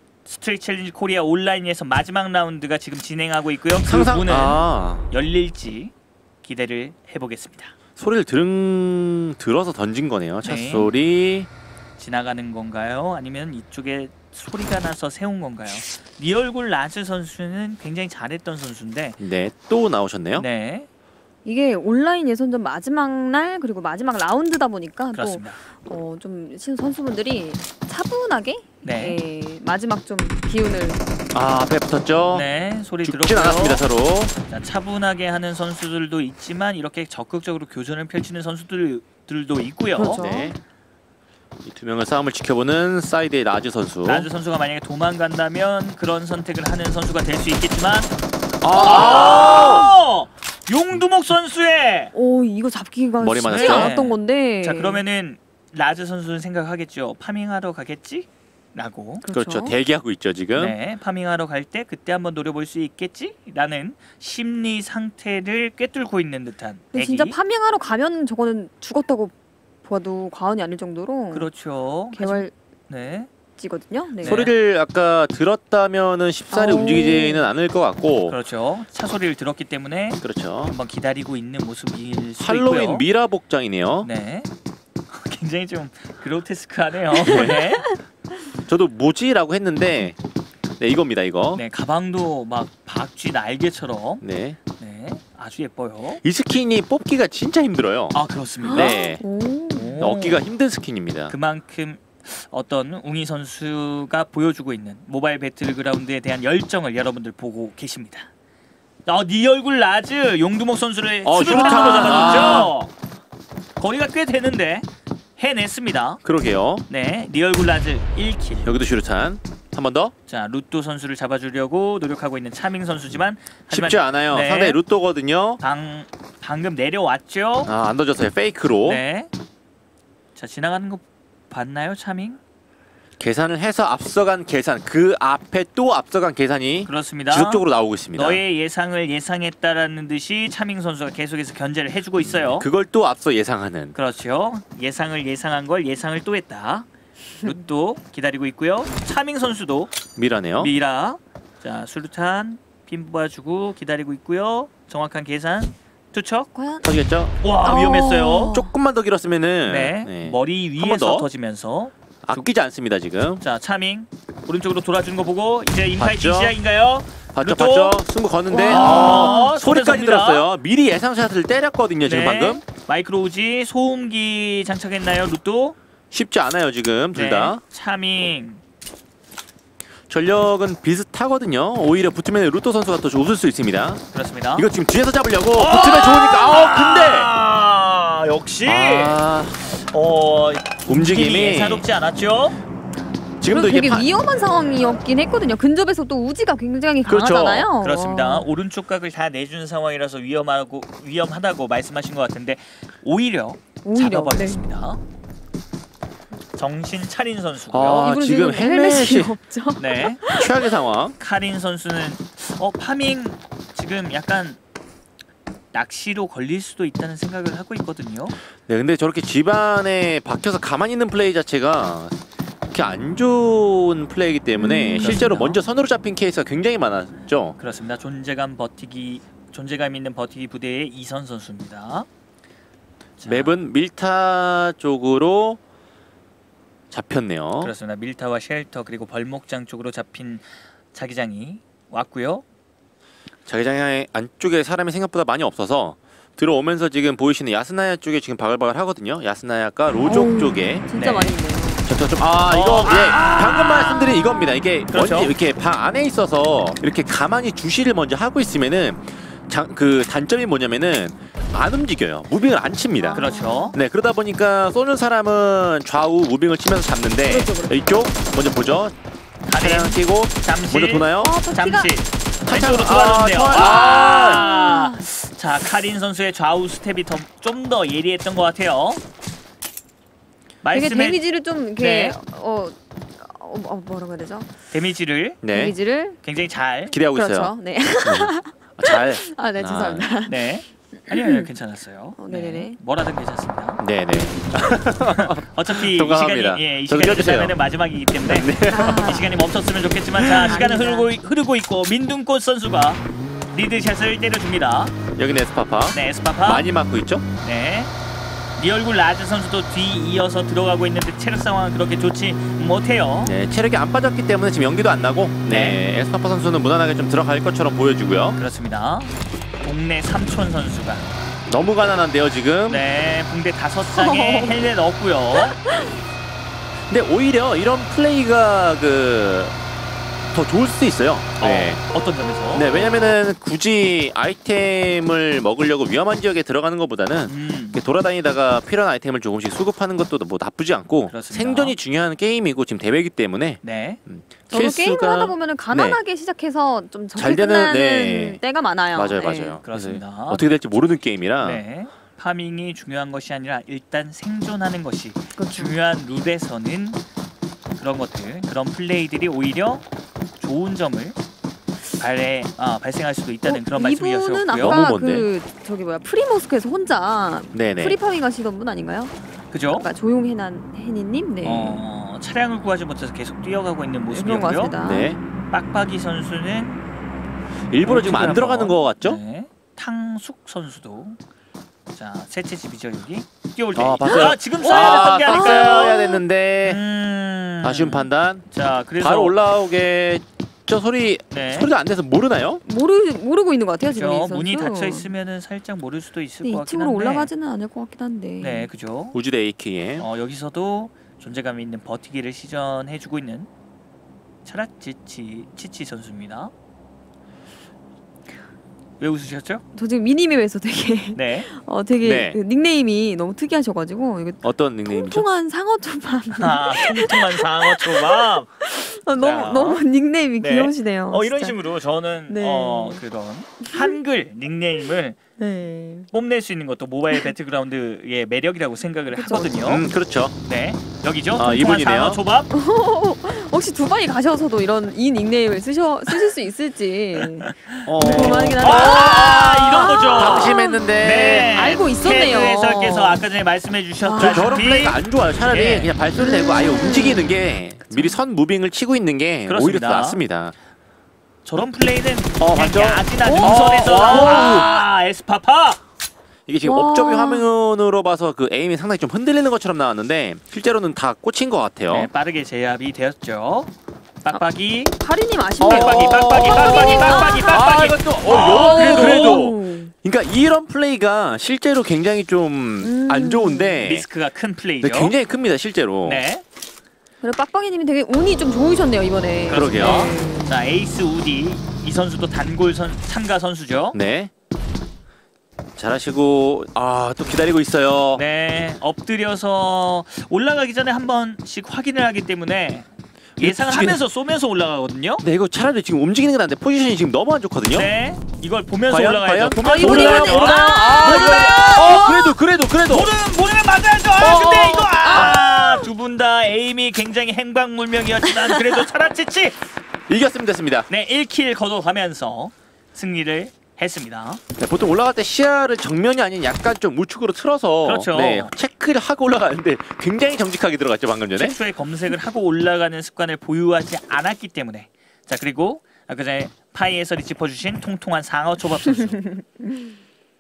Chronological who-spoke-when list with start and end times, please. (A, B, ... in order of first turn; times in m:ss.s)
0:00.3-0:05.9 A
0:03.8-0:05.0 B
0:06.4-0:07.7 A
0:08.0-0:11.5 B
0:10.4-0:10.9 A
0:12.0-0:19.2 A
0:19.2-0:20.4 B
0:20.4-0:20.9 A
0:21.4-0:31.0 C
0:25.2-0:25.6 A
0:28.8-0:29.2 A
0:31.3-0:32.5 B
0:32.3-0:33.8 A
0:33.0-0:34.3 B
0:34.5-0:40.2 A
0:40.0-0:40.6 C
0:40.2-0:40.6 B
0:41.6-0:44.3 B
0:44.0-0:48.1 A
0:48.6-0:49.9 B
0:48.7-0:49.9 C
0:48.8-0:52.1 A
0:52.1-0:55.0 C
0:53.2-0:53.9 B
0:53.5-0:59.2 A
0:59.2-0:59.7 C
0:59.3-1:00.8 B
1:00.6-1:07.4 A
1:06.9-1:09.3 C
1:09.8-1:11.5 C
1:11.3-1:13.3 A
1:12.1-1:12.5 C
1:13.6-1:14.5 C
1:14.2-1:14.5 A
1:14.2-1:18.4 B
1:16.5-1:17.5 C
1:18.3-1:23.1 A
1:20.2-1:20.7 B
1:22.4-1:24.1 B
1:24.0-1:24.5 A
1:25.1-1:27.9 A
1:27.2-1:27.8 B
1:28.7-1:30.2 B
1:30.8-1:31.6 B
1:31.5-1:34.2 A
1:34.2-1:34.6 B
1:34.8-1:36.2 A
1:36.2-1:38.2 B
1:38.1-1:39.0 A
1:38.6-1:40.0 C
1:38.7-1:39.2 B
1:39.7-1:40.4 A
1:40.0-1:41.3 B
1:41.3-1:48.3 A
1:49.1-1:52.9 A
1:51.2-1:52.7 B
1:51.5-1:52.7 C
1:53.8-1:54.9 A
1:55.4-1:56.2 A
1:56.2-1:56.8 B
1:56.9-1:58.7 A
1:58.6-2:00.1 B
2:00.3-2:04.8 A
2:03.7-2:05.6 B
2:05.6-2:07.7 A
2:07.6-2:09.0 B
2:08.8-2:09.3 A
2:10.4-2:12.4 A
2:13.2-2:18.4 B
2:16.9-2:22.7 A
2:22.2-2:24.0 B
2:24.0-2:26.9 A
2:27.4-2:29.9 A
2:30.2-2:30.7 B
2:30.6-2:36.5 A
2:36.6-2:36.9 C
2:36.8-2:37.3 B
2:37.4-2:38.5 A
2:37.6-2:38.7 C
2:38.5-2:41.3 B
2:39.7-2:42.5 A
2:42.2-2:43.4 B
2:43.4-2:48.0 A
2:46.0-2:46.6 B
2:47.3-2:52.6 B
2:48.5-2:49.5 C
2:48.7-2:50.4 A
2:52.0-2:55.8 A
2:56.1-2:57.6 B
2:57.1-2:58.6 A
3:00.1-3:04.0 B
3:04.1-3:04.7 A
3:04.6-3:07.3 B
3:05.6-3:09.2 A
3:08.6-3:09.7 B
3:09.8-3:12.6 A
3:10.9-3:11.8 B
3:13.4-3:14.1 B
3:13.4-3:18.5 C
3:17.0-3:17.7 B
3:17.8-3:25.0 A
3:23.8-3:24.6 C
3:26.6-3:28.1 A
3:27.7-3:29.4 B
3:28.0-3:30.7 C
3:29.8-3:30.2 A
3:30.3-3:31.2 B
3:31.2-3:34.6 A
3:35.7-3:38.4 A
3:38.7-3:42.2 B
3:42.7-3:47.6 B
3:44.6-3:45.2 C
3:45.0-3:45.6 A
3:47.6-3:52.1 A
3:53.2-3:53.6 A
3:53.2-3:55.6 B
3:56.9-3:57.7 B
3:57.6-4:02.4 A
4:03.5-4:10.9 B
4:10.0-4:11.9 C
4:10.9-4:11.3 A
4:11.9-4:29.0 B
4:12.5-4:14.1 A
4:14.0-4:14.6 C
4:14.9-4:15.3 A
4:23.0-4:23.8 C
4:23.2-4:23.8 A
4:27.3-4:27.8 C
4:29.5-4:39.0 A
4:29.6-4:31.4 B
4:31.2-4:31.9 C
4:32.4-4:34.5 B
4:33.5-4:35.0 C
4:40.6-4:41.2 A
4:40.7-4:44.5 C
4:41.8-4:42.2 A
4:44.7-4:45.4 A
4:45.4-4:45.8 B
4:45.5-4:46.2 C
4:46.2-4:47.0 A
4:46.9-4:50.1 B
4:47.1-4:51.5 C
4:50.3-4:53.8 A
4:52.2-4:52.8 C
4:53.8-4:57.6 B
4:55.1-5:05.0 A
4:58.2-4:59.0 B
4:58.7-4:59.3 C
5:00.2-5:00.6 B
5:00.5-5:01.1 C
5:05.2-5:07.2 B
5:05.9-5:06.7 A
5:07.4-5:07.9 A
5:08.6-5:13.3 A
5:13.2-5:18.4 B
5:15.5-5:15.8 A
5:18.4-5:21.1 A
5:21.5-5:22.8 B
5:22.7-5:25.6 A
5:23.9-5:24.6 C
5:25.4-5:26.0 C
5:26.9-5:29.6 B
5:30.3-5:31.8 B
5:31.4-5:32.7 A
5:32.5-5:46.0 B
5:37.3-5:37.8 A
5:41.1-5:41.8 A
5:43.6-5:44.0 A
5:44.5-5:49.6 C
5:47.2-5:48.4 B
5:48.9-5:51.6 B
5:49.6-5:50.5 A
5:51.4-5:57.0 A
5:55.4-5:55.8 C
5:57.8-5:59.8 A
6:00.4-6:01.2 A
6:02.0-6:04.8 A
6:03.4-6:09.1 C
6:04.6-6:05.3 B
6:07.5-6:08.0 B
6:09.5-6:09.9 A
6:09.7-6:11.8 C
6:11.4-6:14.8 A
6:14.1-6:15.2 C
6:14.8-6:15.2 B
6:15.5-6:16.8 A
6:17.7-6:19.2 B
6:17.8-6:21.2 A
6:21.9-6:26.0 A
6:23.8-6:26.8 B
6:24.0-6:26.2 C
6:26.6-6:29.4 A
6:27.6-6:28.4 B
6:29.0-6:32.6 B
6:31.3-6:31.7 A
6:32.6-6:35.1 C
6:33.9-6:37.3 A
6:36.4-6:38.7 C
6:38.4-6:39.2 A
6:39.1-6:40.1 B
6:40.0-6:43.5 A
6:44.4-6:46.5 A
6:49.0-6:49.6 A
6:49.8-7:01.6 C
6:51.2-6:51.5 A
6:52.0-6:52.4 B
6:54.4-6:55.3 B
6:56.4-6:58.5 A
6:59.2-6:59.8 A
7:00.4-7:05.2 A
7:02.3-7:03.0 C
7:03.6-7:04.0 C
7:05.4-7:06.1 C
7:06.1-7:09.8 A
7:09.1-7:09.6 C
7:09.6-7:10.4 B
7:10.5-7:12.5 A
7:11.4-7:12.2 B
7:12.5-7:20.9 C
7:17.4-7:25.0 A
7:17.8-7:21.6 B
7:21.5-7:23.2 C
7:24.0-7:24.7 C
7:24.2-7:30.6 B
7:25.5-7:25.9 A
7:26.2-7:28.2 C
7:29.5-7:30.2 A
7:31.4-7:35.8 A
7:32.4-7:34.7 B
7:33.2-7:34.8 C
7:36.5-7:42.1 B
7:36.6-7:37.4 C
7:41.9-7:43.7 A
7:44.2-7:44.9 A
7:45.0-7:49.9 C
7:45.6-7:54.0 B
7:45.6-7:49.4 A
7:52.8-7:53.8 C
7:53.8-7:55.2 A
7:54.8-7:56.2 B
7:56.0-7:56.4 A
7:57.2-8:00.6 C
7:59.5-8:04.0 A
7:59.5-8:00.2 B
8:03.9-8:04.3 B
8:05.8-8:08.2 B
8:08.2-8:15.2 A
8:13.4-8:14.0 B
8:15.2-8:17.9 B
8:17.7-8:22.3 A
8:18.9-8:23.1 B
8:19.6-8:22.2 C
8:22.9-8:29.6 A
8:24.2-8:25.4 B
8:25.0-8:25.9 C
8:30.1-8:30.9 B
8:30.9-8:34.4 A
8:34.6-8:41.6 B
8:37.8-8:38.5 A
8:41.4-8:49.2 A
8:48.9-8:50.0 C